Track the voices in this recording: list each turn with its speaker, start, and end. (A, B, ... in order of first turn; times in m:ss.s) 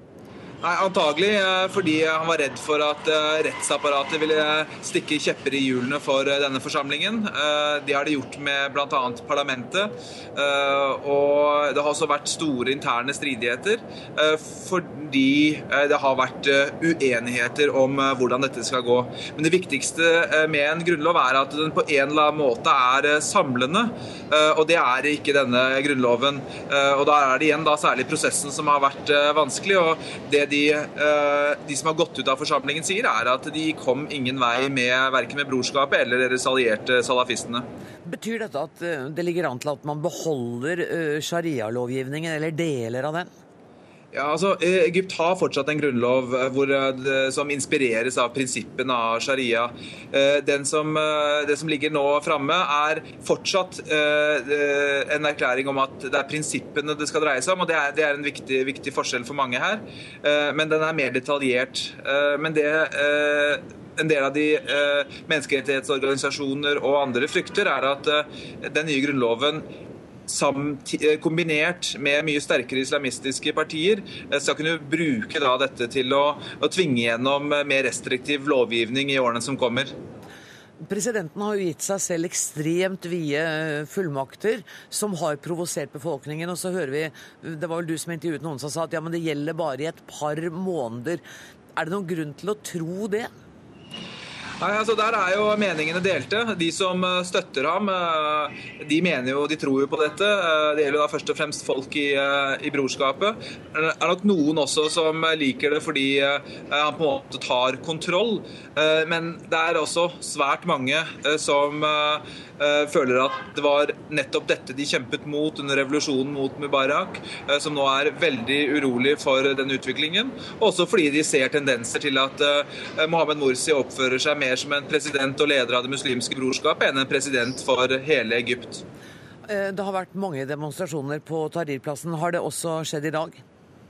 0:00.6-0:37.6 A
0:38.0-0:43.3 B
0:44.1-1:09.6 A
1:10.3-1:19.9 A
1:20.8-1:31.2 B
1:31.8-1:33.3 B
1:34.6-2:08.8 A
2:09.5-2:13.4 B